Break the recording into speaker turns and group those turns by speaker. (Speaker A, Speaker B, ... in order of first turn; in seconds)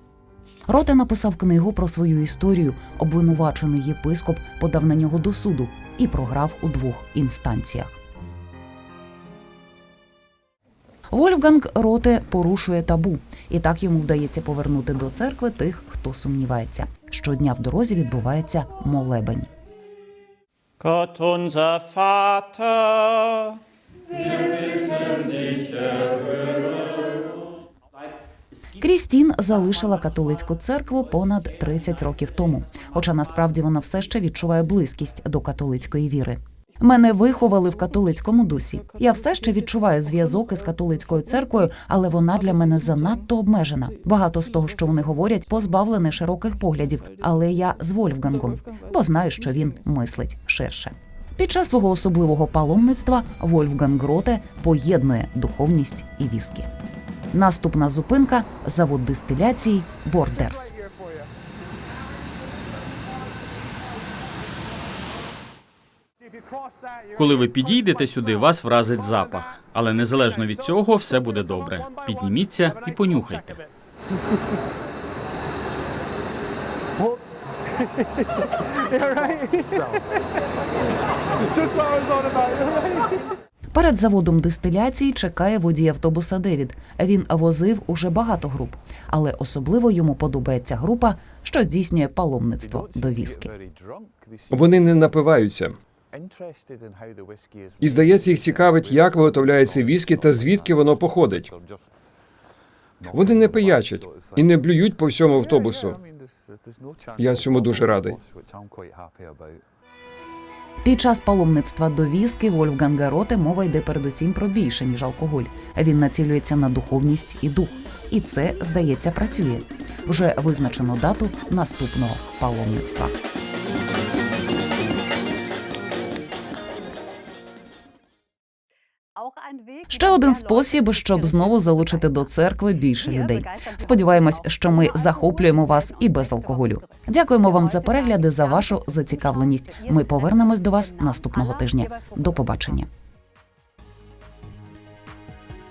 Speaker A: 0.7-7.9, 11.1-19.5, 28.8-56.7, 57.3-60.8, 83.7-93.5, 110.8-123.1, 129.9-142.9
Speaker B: 20.8-23.6, 24.1-27.2
Speaker C: 67.1-73.6
Speaker D: 94.5-95.8, 97.8-101.5, 103.1-106.0, 107.2-108.2